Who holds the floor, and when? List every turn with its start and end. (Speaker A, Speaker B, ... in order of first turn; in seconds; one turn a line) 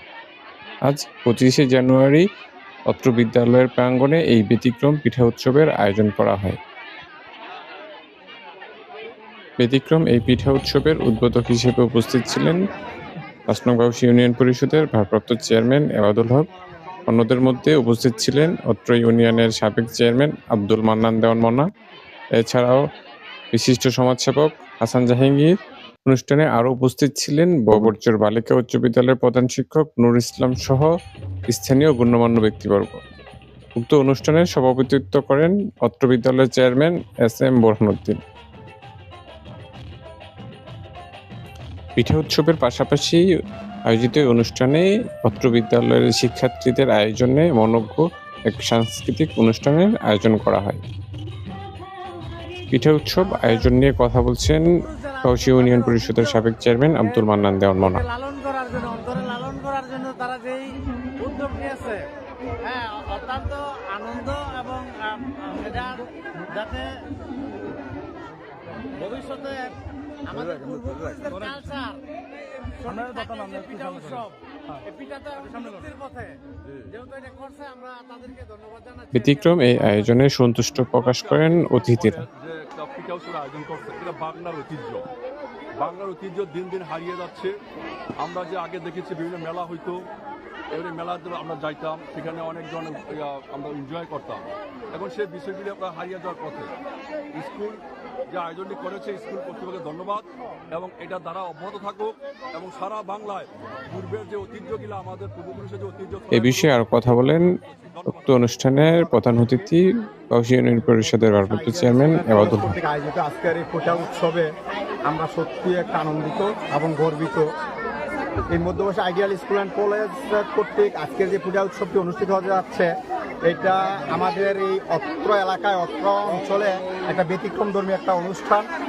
Speaker A: 0.8-2.2
Speaker A: 2.9-6.6
Speaker A: 9.6-12.6
Speaker A: 13.5-16.5
Speaker A: 17.1-21.6
Speaker A: 22.4-22.8
Speaker A: 23.5-25.5
Speaker A: 26.1-30.9
Speaker A: 31.5-33.0
Speaker A: 33.8-38.2
Speaker A: 42.0-43.2
Speaker A: 43.9-50.8
Speaker A: 52.7-54.7
Speaker B: 54.8-56.5
Speaker A: 55.2-58.0
Speaker B: 57.9-62.1
Speaker B: 62.6-67.0
Speaker B: 69.0-72.0
Speaker B: 72.8-74.4
Speaker B: 74.9-76.4
Speaker B: 76.9-80.1
Speaker A: 79.1-82.2
Speaker C: 80.8-85.1
Speaker C: 85.8-87.5
Speaker C: 88.2-90.0
Speaker C: 90.7-96.7
Speaker C: 97.3-108.6
Speaker A: 106.3-107.5
Speaker A: 108.1-112.7
Speaker D: 111.1-114.5
Speaker D: 115.1-117.5
Speaker D: 118.5-122.9
Speaker D: 123.5-128.7